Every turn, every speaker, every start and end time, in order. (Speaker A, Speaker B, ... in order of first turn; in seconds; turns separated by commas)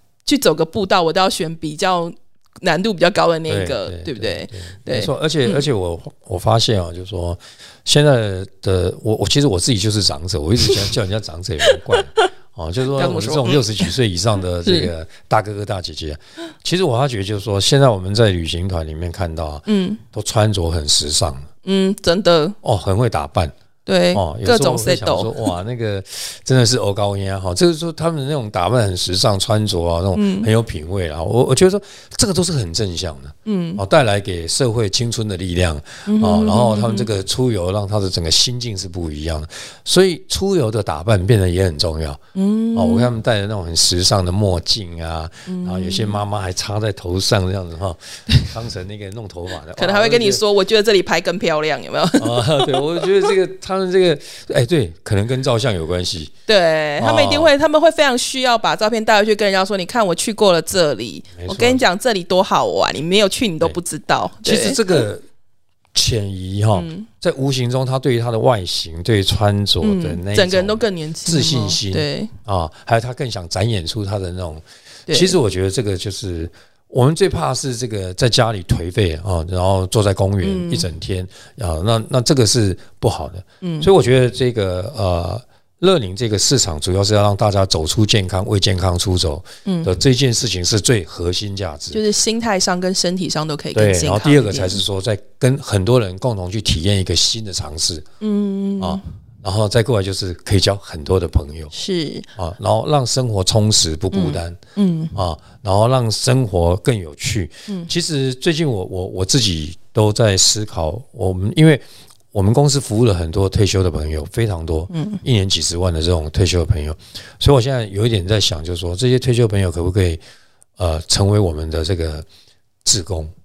Speaker A: 0.2-5.6, Speaker B: 3.5-21.5, Speaker A: 12.0-12.2, Speaker A: 12.9-13.9, Speaker A: 14.6-14.9, Speaker A: 19.6-20.0, Speaker A: 21.6-22.6, Speaker B: 22.6-23.5, Speaker A: 23.9-25.5, Speaker B: 24.1-42.2, Speaker A: 30.1-30.5, Speaker A: 33.5-33.8, Speaker A: 36.0-37.1, Speaker A: 42.3-43.1, Speaker B: 42.7-50.4, Speaker A: 45.5-46.2, Speaker A: 49.7-53.3, Speaker B: 52.2-56.3, Speaker A: 56.5-64.8, Speaker B: 57.0-57.5, Speaker B: 61.4-61.8, Speaker B: 64.4-65.2, Speaker B: 65.9-92.0, Speaker A: 66.7-67.1, Speaker A: 69.8-72.3, Speaker A: 75.1-75.3, Speaker A: 80.4-80.8, Speaker A: 83.6-83.9, Speaker A: 89.6-89.9, Speaker A: 91.9-94.8, Speaker B: 93.7-98.0, Speaker A: 98.2-99.0, Speaker B: 98.8-101.7, Speaker A: 101.7-102.3, Speaker B: 102.3-104.6, Speaker A: 104.1-105.1, Speaker B: 105.1-120.2, Speaker A: 114.9-115.2, Speaker B: 120.8-122.2, Speaker B: 122.8-123.3